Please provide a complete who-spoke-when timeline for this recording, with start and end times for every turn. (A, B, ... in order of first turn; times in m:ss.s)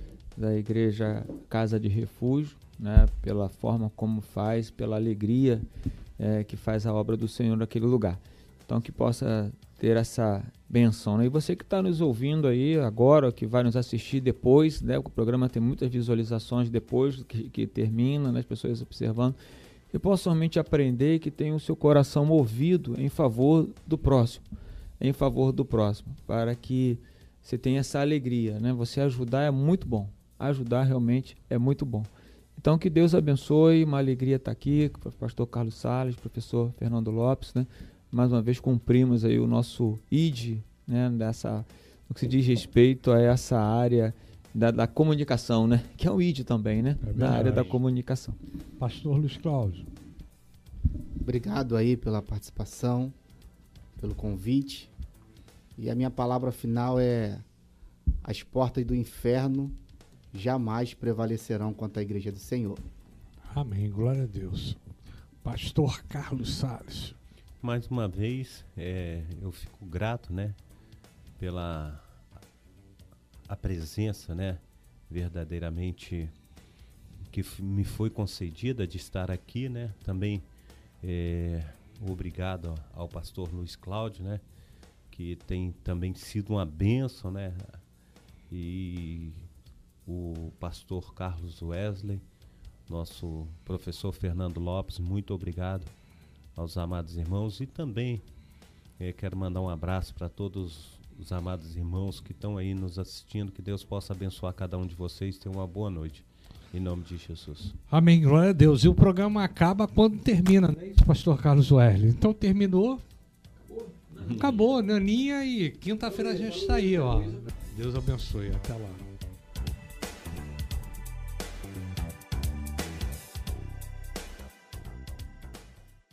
0:00.4-0:19.4 A
0:19.9-0:24.4 A
0:25.0-0:48.4 A
0:47.0-0:47.8 B
0:48.8-0:49.9 B
0:51.2-0:53.2 C
0:54.0-0:54.9 C
0:55.8-0:57.4 C
0:58.2-0:59.8 C
1:00.3-1:02.8 C
1:03.5-1:04.8 B
1:05.4-1:07.2 B
1:07.6-1:10.6 D
1:11.4-1:12.0 D
1:13.5-1:16.3 D
1:17.3-1:20.4 D
1:21.0-1:24.4 D
1:25.1-1:27.8 D
1:28.5-1:29.5 D
1:30.1-1:32.2 D
1:32.9-1:35.9 D
1:36.6-1:38.2 D
1:39.0-1:47.7 D
1:47.9-1:53.0 B
1:53.7-1:54.6 A
1:54.2-1:59.1 B
1:56.1-1:57.5 A